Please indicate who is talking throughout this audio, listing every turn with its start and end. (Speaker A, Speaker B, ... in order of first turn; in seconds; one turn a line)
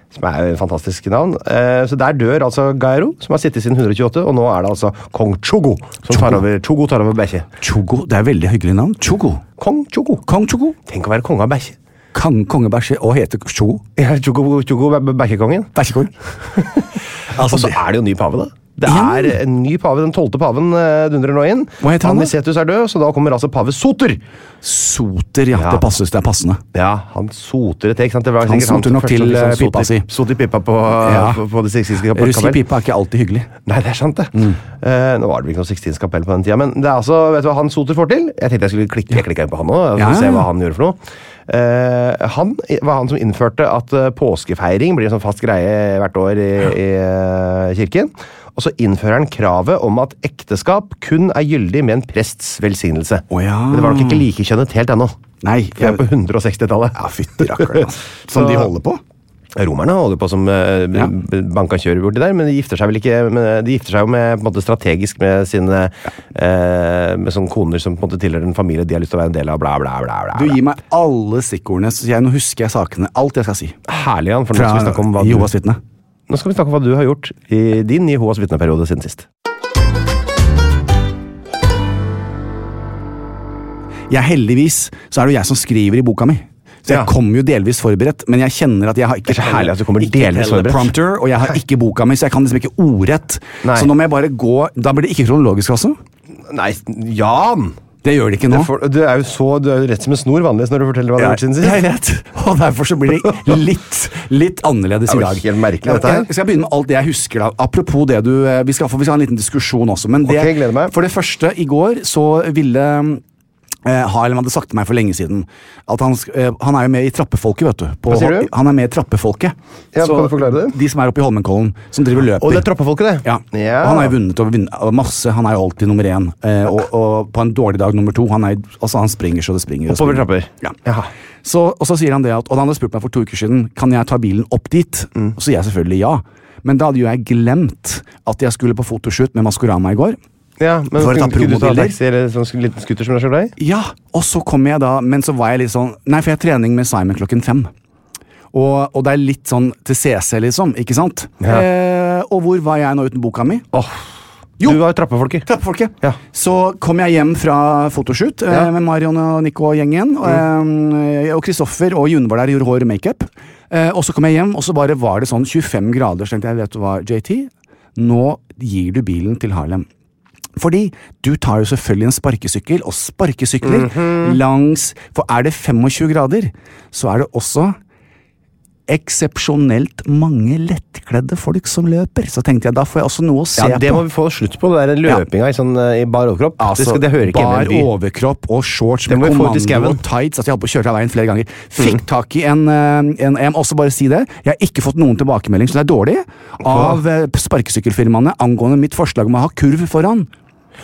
Speaker A: 0.1-7.5
Speaker B: 6.1-6.4
Speaker B: 7.6-9.4
Speaker A: 9.6-10.2
Speaker B: 10.3-10.8
Speaker A: 10.8-11.8
Speaker B: 12.1-13.8
Speaker A: 13.9-15.7
Speaker B: 15.7-16.1
Speaker A: 16.5-24.2
Speaker B: 17.3-17.8
Speaker B: 18.9-19.4
Speaker B: 21.8-22.3
Speaker B: 24.6-26.6
Speaker A: 25.6-25.9
Speaker A: 26.7-32.6
Speaker B: 28.4-30.1
Speaker B: 31.0-31.4
Speaker B: 32.1-33.5
Speaker A: 33.6-55.2
Speaker B: 40.0-40.5
Speaker B: 53.3-54.2
Speaker B: 55.4-56.0
Speaker A: 55.8-58.7
Speaker B: 56.9-59.0
Speaker A: 59.5-70.6
Speaker B: 70.3-73.8
Speaker A: 73.9-75.5
Speaker B: 74.5-75.8
Speaker A: 76.3-79.3
Speaker B: 84.1-96.0
Speaker A: 89.3-90.9
Speaker A: 93.6-93.9
Speaker A: 96.5-97.8
Speaker B: 98.0-98.7
Speaker A: 98.5-101.8
Speaker B: 101.2-113.2
Speaker A: 105.1-106.3
Speaker A: 110.2-110.9
Speaker B: 113.8-122.7
Speaker A: 118.1-118.5
Speaker A: 119.9-120.8
Speaker A: 122.4-124.1
Speaker B: 123.2-130.8
Speaker A: 129.9-131.1
Speaker B: 131.4-140.2
Speaker A: 140.6-143.5
Speaker B: 141.0-141.9
Speaker B: 143.6-147.7
Speaker B: 148.5-153.7
Speaker A: 153.7-154.0
Speaker A: 154.6-155.5
Speaker B: 155.4-169.8
Speaker B: 170.6-177.8
Speaker A: 173.6-174.4
Speaker B: 178.9-184.0
Speaker A: 183.6-187.9
Speaker B: 186.6-200.3
Speaker A: 189.1-190.0
Speaker A: 196.6-197.0